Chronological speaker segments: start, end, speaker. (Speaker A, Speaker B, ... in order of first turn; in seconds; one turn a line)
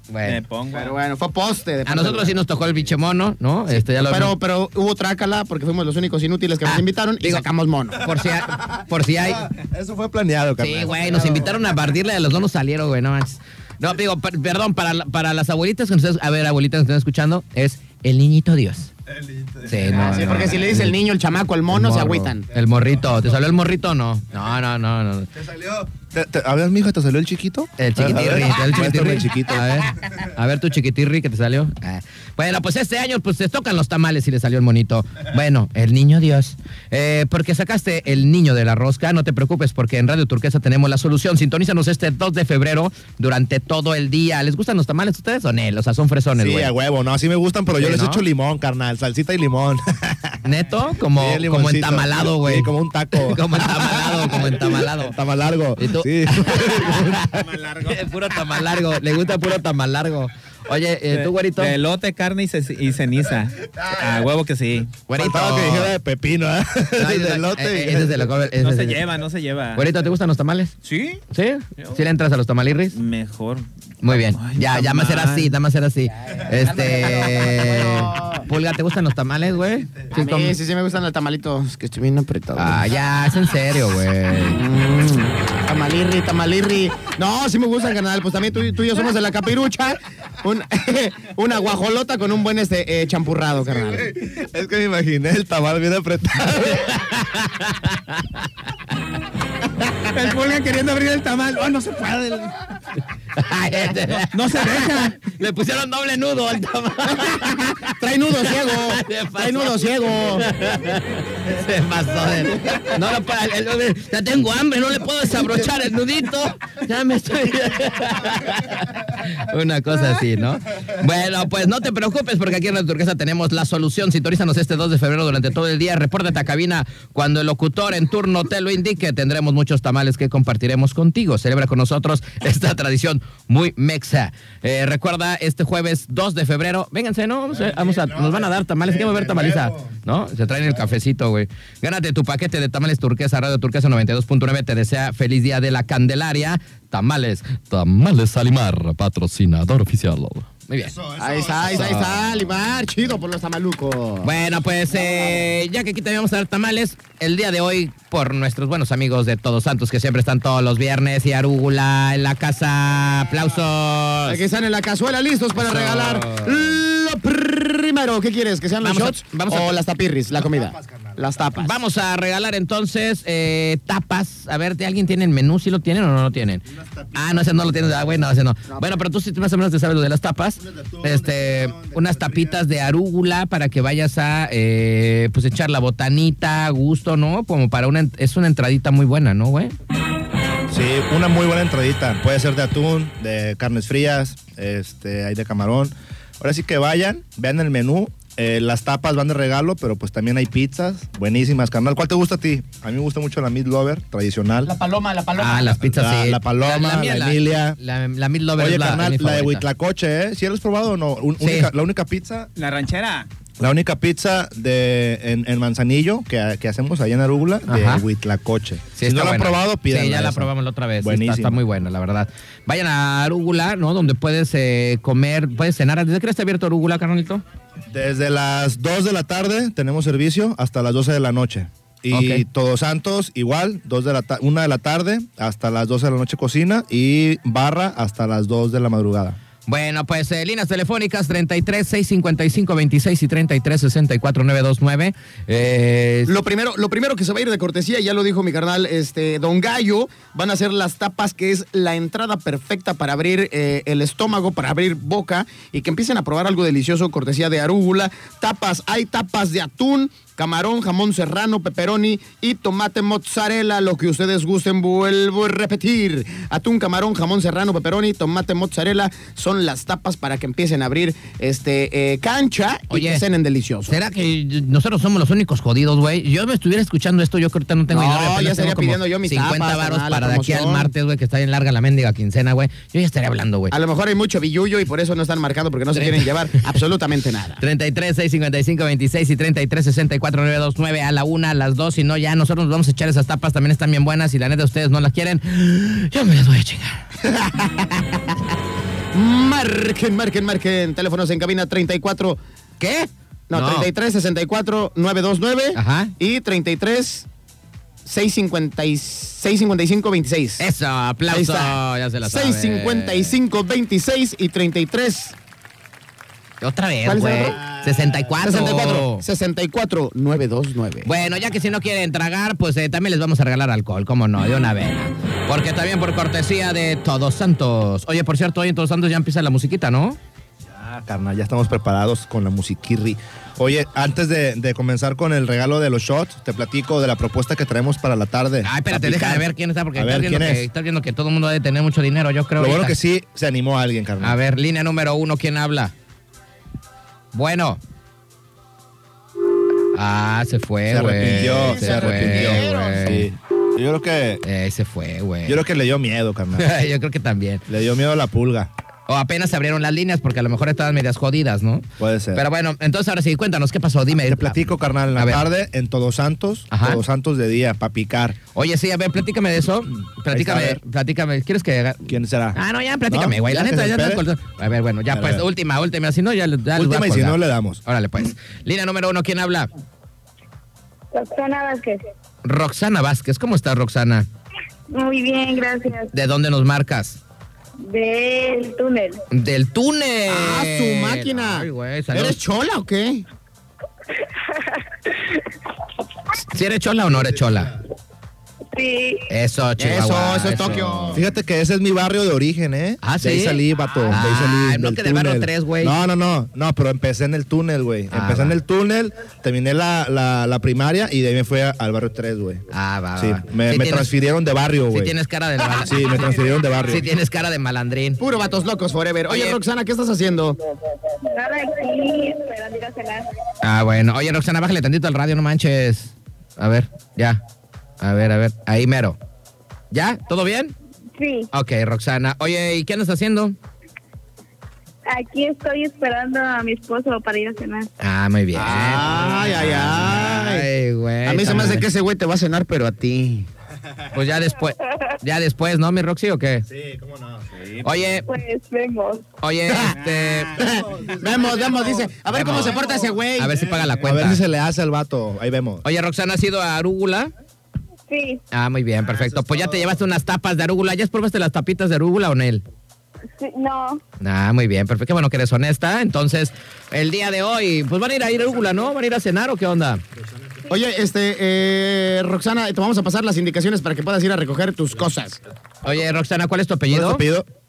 Speaker A: 0.1-0.4
Speaker B: 0.2-1.0
Speaker C: 0.7-2.4
Speaker A: 1.9-4.3
Speaker C: 3.7-8.1
Speaker A: 6.7-7.5
Speaker A: 8.0-9.5
Speaker D: 8.6-11.5
Speaker A: 10.6-18.9
Speaker D: 19.1-20.6
Speaker A: 19.6-21.0
Speaker C: 19.9-22.5
Speaker A: 21.7-25.3
Speaker D: 25.4-29.9
Speaker A: 27.8-46.7
Speaker D: 46.4-50.4
Speaker A: 47.8-48.2
Speaker A: 50.4-55.2
Speaker D: 51.1-57.5
Speaker A: 55.8-57.2
Speaker B: 57.3-58.0
Speaker A: 57.8-61.8
Speaker B: 61.1-65.4
Speaker A: 65.1-66.0
Speaker D: 65.3-68.4
Speaker A: 67.0-69.0
Speaker B: 68.6-69.9
Speaker A: 69.8-70.8
Speaker B: 70.8-71.2
Speaker A: 71.3-73.0
Speaker B: 72.9-75.5
Speaker A: 74.0-80.6
Speaker C: 76.5-78.4
Speaker C: 80.1-82.9
Speaker A: 82.5-84.6
Speaker C: 84.5-94.1
Speaker D: 93.7-97.1
Speaker A: 96.7-98.4
Speaker B: 100.1-102.6
Speaker A: 103.3-151.0
Speaker B: 104.3-105.2
Speaker C: 107.4-110.5
Speaker D: 137.5-140.0
Speaker D: 150.8-152.3
Speaker C: 151.2-155.4
Speaker A: 151.7-152.1
Speaker A: 154.2-164.4
Speaker C: 164.3-171.8
Speaker A: 165.6-166.8
Speaker A: 168.8-169.8
Speaker D: 170.3-171.4
Speaker A: 171.6-189.7
Speaker D: 176.7-178.2
Speaker D: 180.6-182.6
Speaker D: 190.7-204.7
Speaker C: 204.7-205.8
Speaker A: 205.4-209.7
Speaker D: 205.8-207.8
Speaker D: 208.6-212.5
Speaker A: 211.4-211.7
Speaker B: 212.6-213.3
Speaker D: 213.6-221.6
Speaker A: 217.7-218.1
Speaker A: 219.0-227.4
Speaker D: 227.9-239.4
Speaker A: 232.1-232.4
Speaker A: 239.7-246.3
Speaker C: 246.3-274.0
Speaker A: 272.9-273.2
Speaker A: 273.9-283.7
Speaker C: 277.9-280.9
Speaker C: 283.7-287.6
Speaker A: 285.9-286.8
Speaker A: 287.6-297.1
Speaker C: 297.2-298.2
Speaker C: 299.1-302.4
Speaker A: 302.8-303.9
Speaker C: 303.5-307.3
Speaker A: 305.8-306.1
Speaker C: 308.1-310.6
Speaker A: 310.6-313.4
Speaker C: 311.3-315.4
Speaker A: 316.6-319.2
Speaker C: 317.1-317.6
Speaker D: 317.5-318.8
Speaker C: 318.4-321.1
Speaker A: 321.0-330.2
Speaker D: 330.7-340.7
Speaker A: 338.6-343.0
Speaker D: 342.6-344.4
Speaker A: 344.2-345.9
Speaker A: 347.3-347.8
Speaker A: 349.9-353.3
Speaker D: 350.9-354.4
Speaker C: 351.3-353.2
Speaker A: 354.4-355.6
Speaker D: 355.4-356.7
Speaker A: 356.6-357.6
Speaker D: 357.7-358.7
Speaker A: 359.1-365.4
Speaker D: 362.0-362.4
Speaker D: 364.3-368.4
Speaker A: 366.7-367.0
Speaker A: 368.6-379.7
Speaker D: 370.0-370.8
Speaker D: 372.1-374.2
Speaker D: 375.1-375.5
Speaker D: 376.7-377.8
Speaker E: 381.1-382.0
Speaker A: 382.4-384.3
Speaker E: 384.9-386.1
Speaker A: 386.1-387.2
Speaker E: 387.9-389.2
Speaker A: 389.3-392.4
Speaker C: 390.3-393.2
Speaker A: 396.5-397.8
Speaker E: 398.7-399.3
Speaker A: 399.3-401.2
Speaker C: 399.8-401.2
Speaker D: 400.4-412.7
Speaker A: 403.0-406.0
Speaker A: 408.1-408.6
Speaker A: 412.7-414.1
Speaker D: 413.2-415.1
Speaker A: 414.9-416.4
Speaker D: 415.8-417.1
Speaker A: 416.9-418.2
Speaker C: 418.2-420.6
Speaker A: 419.3-419.6
Speaker E: 421.3-423.3
Speaker A: 423.6-427.4
Speaker A: 428.0-429.2
Speaker A: 429.9-430.7
Speaker E: 431.2-431.5
Speaker A: 431.5-433.6
Speaker E: 435.1-437.9
Speaker A: 438.0-441.9
Speaker C: 438.5-440.7
Speaker C: 441.2-443.5
Speaker A: 444.1-446.7
Speaker D: 446.7-447.6
Speaker B: 447.6-448.0
Speaker A: 447.8-448.2
Speaker E: 448.2-449.3
Speaker A: 449.4-450.6
Speaker C: 449.7-449.9
Speaker B: 450.1-450.4
Speaker C: 450.6-453.6
Speaker D: 450.7-455.8
Speaker A: 452.3-454.4
Speaker A: 455.8-457.3
Speaker E: 458.1-458.4
Speaker A: 458.5-462.6
Speaker D: 459.2-459.9
Speaker E: 463.4-464.0
Speaker A: 464.2-470.0
Speaker C: 470.7-475.4
Speaker A: 475.8-477.2
Speaker D: 476.9-477.5